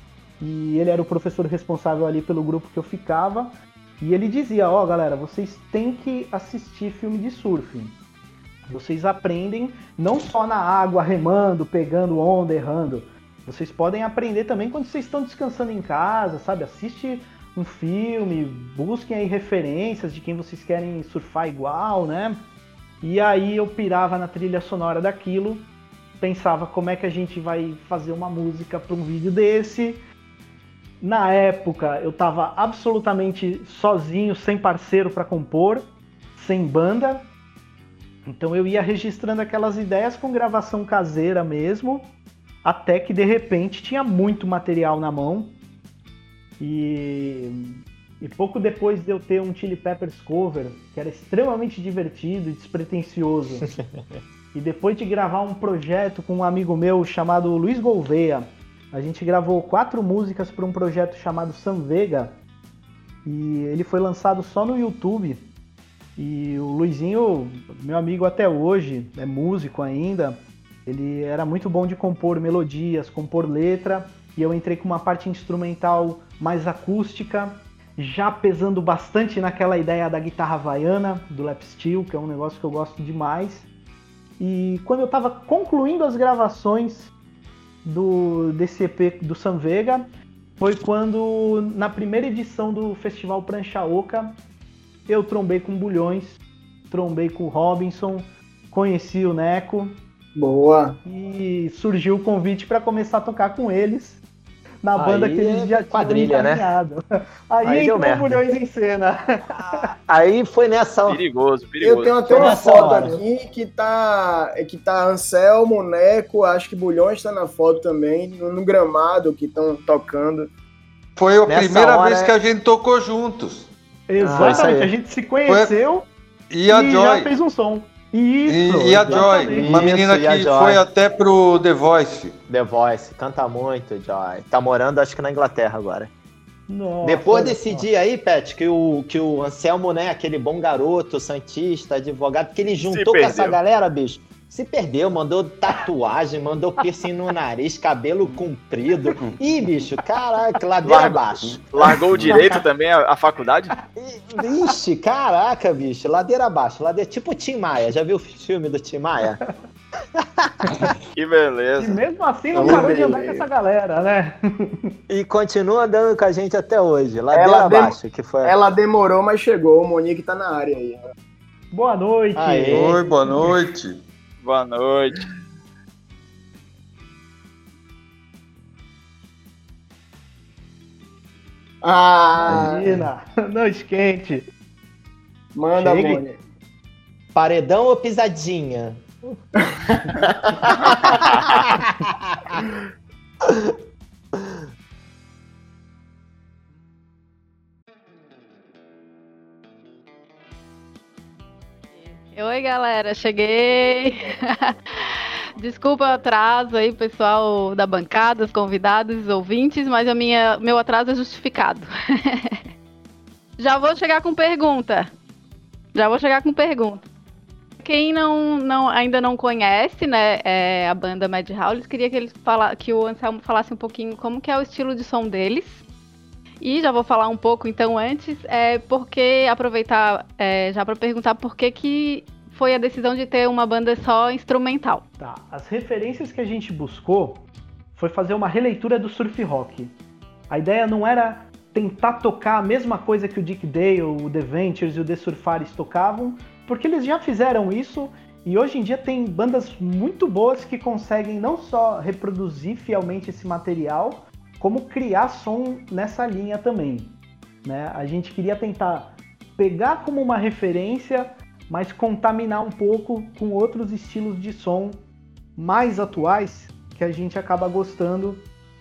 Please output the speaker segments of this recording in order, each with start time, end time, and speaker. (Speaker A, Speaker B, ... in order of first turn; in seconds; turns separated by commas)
Speaker A: 0.4-8.0, Speaker A: 8.7-22.4, Speaker A: 23.0-25.7, Speaker A: 26.2-30.0, Speaker A: 31.0-37.3, Speaker A: 38.2-45.5, Speaker A: 46.6-53.7, Speaker A: 54.5-62.4, Speaker A: 63.2-65.5, Speaker A: 66.2-83.7, Speaker A: 84.4-87.1, Speaker A: 87.8-90.1, Speaker A: 90.6-94.4, Speaker A: 95.1-100.0, Speaker B: 100.3-101.0, Speaker A: 101.0-104.2, Speaker A: 104.8-109.8, Speaker C: 104.9-106.7, Speaker C: 107.6-108.4, Speaker C: 109.6-111.2, Speaker D: 111.1-112.8, Speaker B: 111.8-120.5, Speaker C: 112.3-113.2, Speaker A: 112.5-113.0, Speaker E: 121.2-123.7, Speaker C: 121.5-122.3, Speaker A: 124.1-126.1, Speaker B: 124.2-124.7, Speaker C: 124.3-124.9, Speaker E: 125.5-125.8, Speaker E: 126.5-127.3, Speaker A: 126.7-129.9, Speaker E: 128.4-132.4, Speaker C: 129.1-130.8, Speaker C: 132.5-136.1, Speaker A: 136.7-137.9, Speaker C: 137.0-151.6, Speaker D: 142.8-143.6, Speaker D: 150.8-153.7, Speaker E: 152.1-152.5, Speaker C: 154.0-159.4, Speaker C: 160.2-160.9, Speaker D: 161.1-162.0, Speaker A: 161.8-164.9, Speaker B: 162.5-163.5, Speaker C: 162.6-163.0, Speaker C: 165.1-168.5, Speaker B: 167.3-171.0, Speaker A: 171.7-172.9, Speaker C: 172.3-173.0, Speaker E: 172.7-174.0, Speaker D: 174.4-175.3, Speaker B: 181.8-182.8, Speaker A: 182.4-184.5, Speaker B: 185.5-186.4, Speaker A: 185.8-186.2, Speaker C: 187.3-189.1, Speaker B: 190.2-191.3, Speaker C: 190.8-192.6, Speaker F: 202.2-205.0, Speaker F: 205.6-212.6, Speaker F: 213.6-215.1, Speaker F: 215.9-217.0, Speaker F: 217.8-225.8, Speaker F: 226.6-235.0, Speaker A: 235.2-239.9, Speaker A: 240.5-265.0, Speaker A: 265.6-268.5